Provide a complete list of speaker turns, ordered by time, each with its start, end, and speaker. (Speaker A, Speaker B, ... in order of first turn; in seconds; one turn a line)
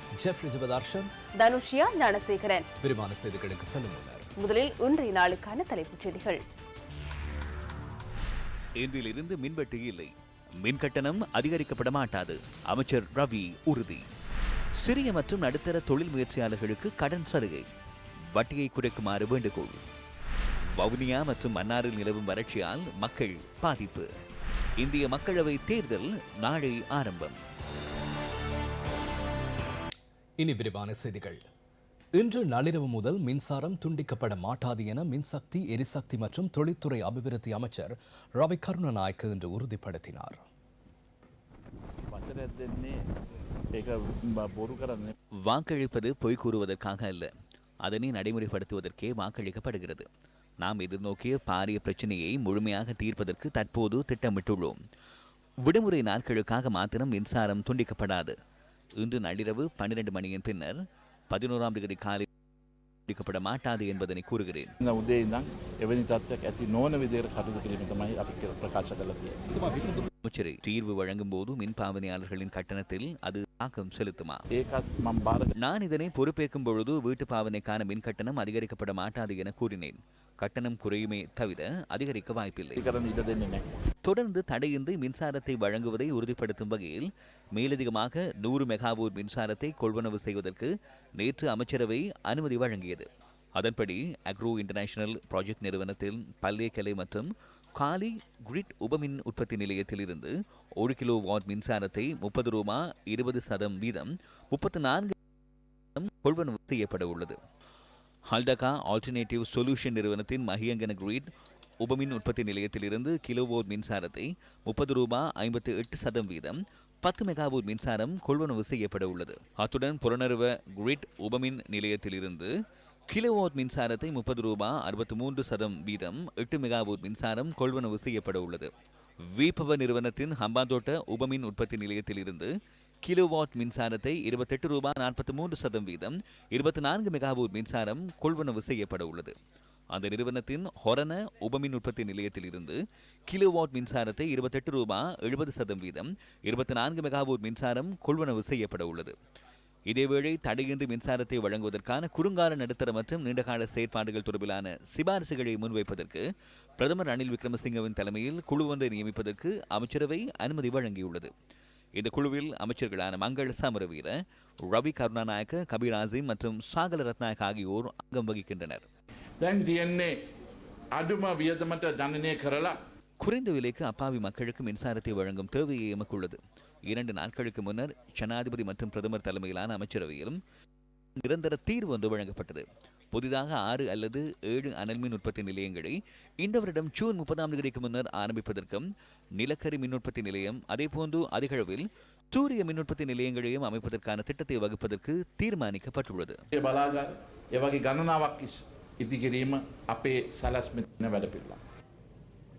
Speaker A: 0.2-1.1
Speaker B: 1.4-2.6
Speaker A: 2.8-4.3
Speaker B: 4.4-6.4
Speaker C: 8.8-14.0
Speaker C: 14.8-17.7
Speaker C: 18.3-19.8
Speaker C: 20.8-24.1
Speaker C: 24.8-27.4
Speaker A: 30.4-31.4
Speaker A: 32.2-40.4
Speaker D: 42.1-43.0
Speaker D: 43.7-45.1
Speaker C: 45.5-47.3
Speaker C: 47.8-50.1
Speaker C: 50.6-54.8
Speaker C: 55.6-58.3
Speaker C: 59.0-60.8
Speaker C: 61.3-62.3
Speaker C: 63.1-64.7
Speaker D: 64.8-69.3
Speaker C: 70.2-74.4
Speaker D: 74.5-75.5
Speaker C: 75.6-82.8
Speaker D: 82.8-83.7
Speaker C: 84.0-105.1
Speaker C: 106.0-107.4
Speaker C: 108.3-111.3
Speaker C: 111.8-122.5
Speaker C: 123.1-128.7
Speaker C: 129.2-132.5
Speaker C: 133.0-139.3
Speaker C: 139.9-149.1
Speaker C: 149.9-156.2
Speaker C: 156.8-161.3
Speaker C: 161.9-168.8
Speaker D: 169.4-170.2
Speaker D: 170.9-172.8
Speaker C: 173.2-180.4
Speaker C: 181.2-188.9
Speaker C: 189.4-196.4
Speaker D: 196.5-201.6